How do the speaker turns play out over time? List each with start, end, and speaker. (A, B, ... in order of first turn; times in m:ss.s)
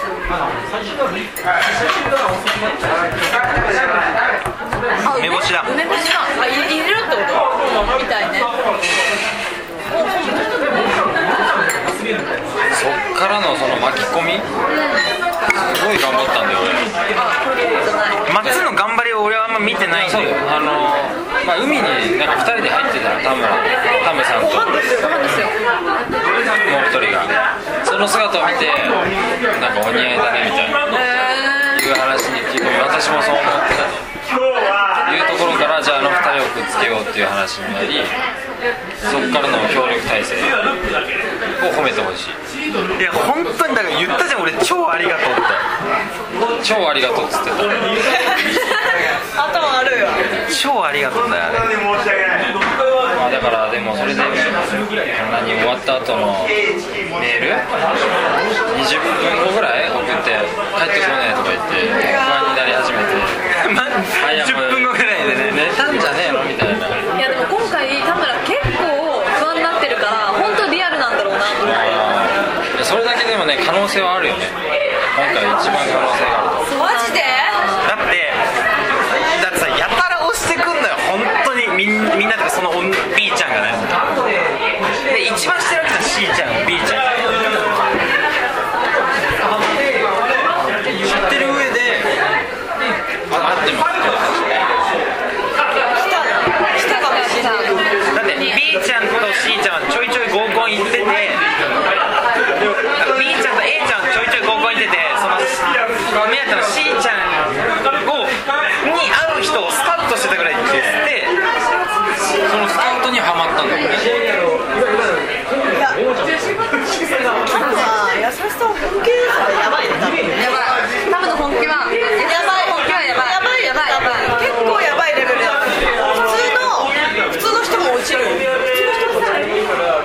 0:05.0-0:08.5 A
0:05.0-0:05.7 B
0:12.7-0:14.5 C
0:15.5-0:16.9 C
0:17.1-0:18.3 A
0:18.2-0:20.4 B
0:19.9-0:24.8 C
0:24.4-0:25.4 D
0:24.4-0:25.6 A
0:26.5-0:30.8 C
0:30.9-0:31.8 A
0:31.7-0:34.0 C
0:35.0-0:38.1 C
0:39.0-0:40.6 C
0:41.6-0:42.4 C
0:43.0-0:45.6 B
0:46.5-0:48.0 C
0:48.1-0:48.8 D
0:49.3-0:50.3 D
0:50.5-0:52.4 B
0:53.1-0:56.6 C
0:57.1-0:57.6 C
0:58.7-1:03.4 C
1:03.5-1:05.7 B
1:04.2-1:07.0 C
1:07.1-1:12.0 A
1:11.6-1:14.5 C
1:15.1-1:16.7 C
1:16.7-1:17.6 D
1:16.7-1:17.9 A
1:17.8-1:18.4 B
1:19.1-1:24.0 B
1:25.1-1:27.6 B
1:30.9-1:32.1 C
1:33.3-1:34.7 C
1:35.9-1:37.8 D
1:36.8-1:38.6 A
1:38.1-1:41.4 B
1:42.6-1:51.3 B
1:52.4-1:54.2 C
1:55.7-1:56.5 D
1:57.4-2:00.4 D
1:57.6-1:57.8 A
2:00.3-2:04.4 A
2:02.2-2:09.6 D